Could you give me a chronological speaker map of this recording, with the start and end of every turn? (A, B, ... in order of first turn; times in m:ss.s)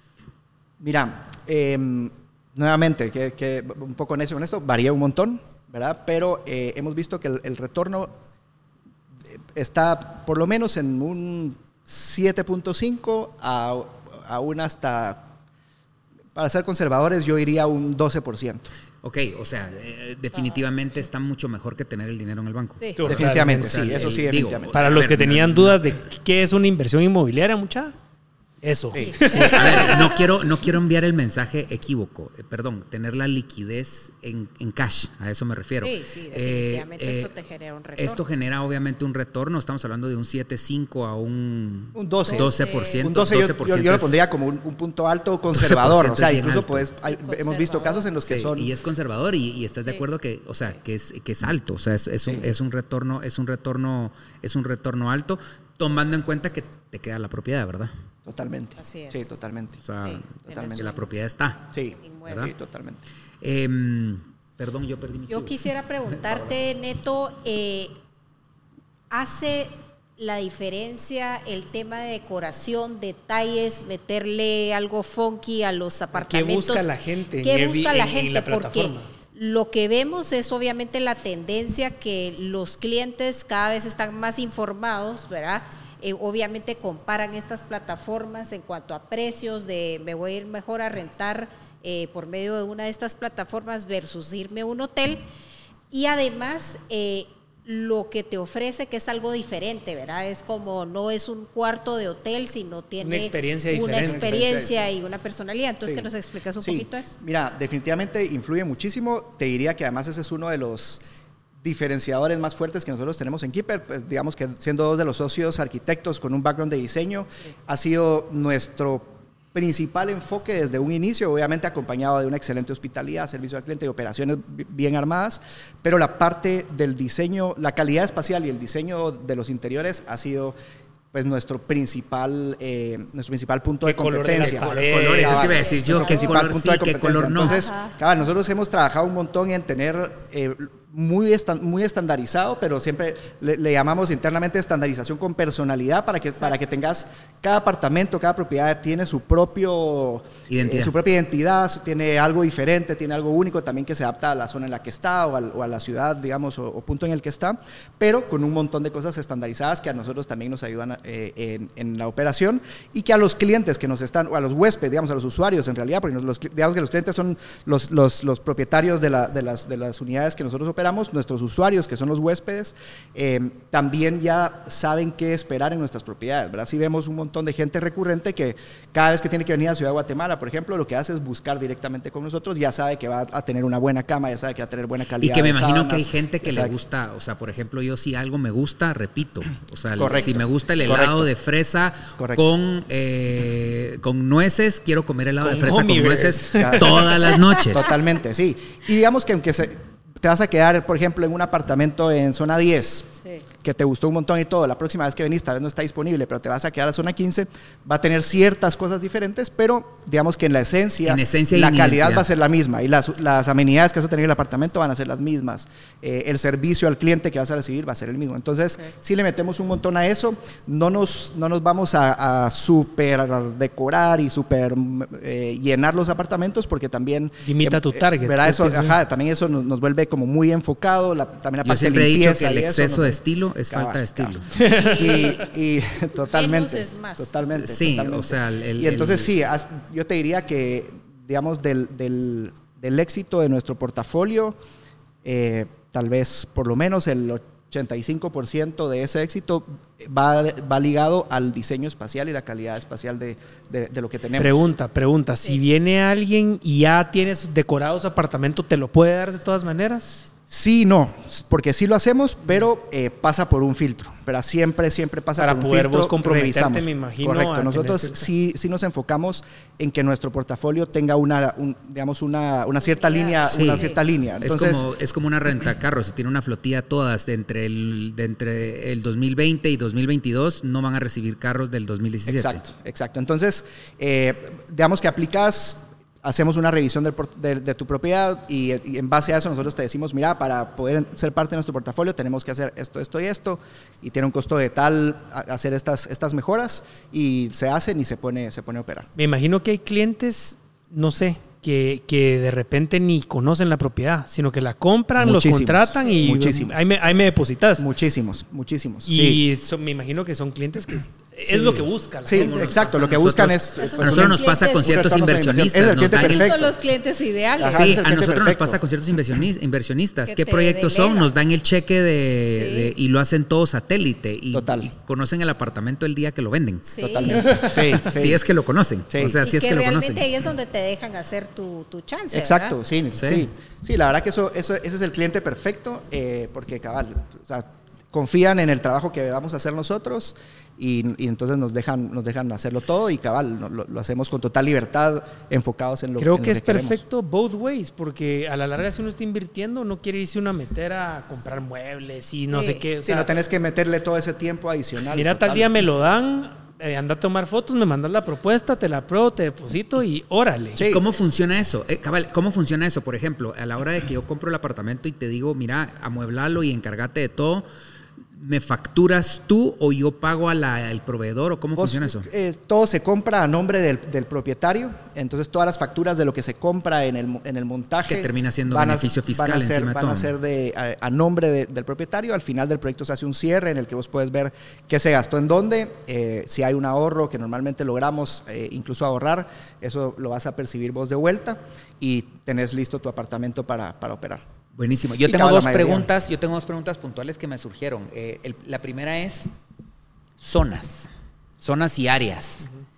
0:00.8-0:08.2 A
0:09.5-0:15.3 A
0:16.4-0:18.7 A
0:19.0-0:25.8 B
0:20.3-0:21.0 C
0:22.8-0:23.0 C
0:23.0-0:24.0 D
0:23.1-0:24.8 A
0:24.7-0:28.0 D
0:28.6-0:29.7 D
0:28.9-0:29.2 A
0:29.0-0:30.3 C
0:29.2-0:37.3 B
0:35.8-0:38.2 C
0:38.0-0:44.2 B
0:42.0-0:48.7 A
0:42.2-0:43.1 C
0:45.5-0:46.9 B
0:47.0-0:48.1 C
0:48.3-0:57.9 B
0:58.3-0:59.8 A
0:58.8-0:59.3 C
0:59.8-1:01.7 B
1:00.0-1:01.0 C
1:00.5-1:00.8 A
1:01.7-1:03.0 A
1:02.0-1:02.5 C
1:02.3-1:02.5 B
1:03.4-1:06.5 B
1:05.3-1:08.0 C
1:09.1-1:35.2 C
1:16.1-1:19.1 D
1:35.9-1:47.1 C
1:43.0-1:44.4 D
1:43.9-1:44.7 A
1:46.6-1:51.0 A
1:51.6-2:10.6 A
2:11.1-3:06.8 A
2:13.8-2:15.5 D
2:14.4-2:17.7 B
2:15.2-2:16.4 C
2:17.4-2:18.0 C
2:30.5-2:30.9 B
3:05.2-3:17.9 B
3:10.0-3:11.3 A
3:10.0-3:10.9 C
3:12.2-3:12.4 A
3:15.4-3:17.1 D
3:16.6-3:17.1 A
3:17.7-3:23.1 A
3:23.6-4:04.6 A
3:31.0-3:32.3 B
3:47.4-3:49.0 D
3:51.6-3:54.5 B
3:54.6-3:55.4 D
3:54.7-3:55.4 C
3:56.3-3:57.3 C
3:57.5-3:59.3 B
4:05.2-4:14.7 A
4:14.4-4:20.3 D
4:20.5-4:34.9 A
4:25.4-4:28.3 D
4:32.8-4:34.0 C
4:33.5-4:33.9 B
4:34.4-4:42.6 B
4:42.3-4:59.1 A
4:59.2-5:07.9 D
5:05.2-5:06.9 A
5:07.8-5:09.4 A
5:09.1-5:12.7 D
5:11.5-5:16.7 A
5:12.3-5:16.5 B
5:13.8-5:18.0 C
5:17.6-5:18.8 A
5:17.7-5:30.3 B
5:20.3-5:21.3 C
5:22.5-5:22.9 C
5:24.5-5:24.9 A
5:26.8-5:27.6 C
5:27.0-5:28.4 A
5:29.1-5:29.4 A
5:29.4-5:32.8 C
5:32.3-5:47.0 A
5:33.2-5:33.5 B
5:46.2-5:53.3 D
5:52.5-5:52.8 C
5:53.0-5:55.9 A
5:55.1-6:00.8 D
6:00.8-6:01.0 A
6:00.8-6:07.7 B
6:08.4-6:12.3 B
6:11.8-6:34.4 A
6:18.1-6:20.3 B
6:34.8-6:39.5 B
6:35.2-6:36.1 A
6:40.4-6:42.7 B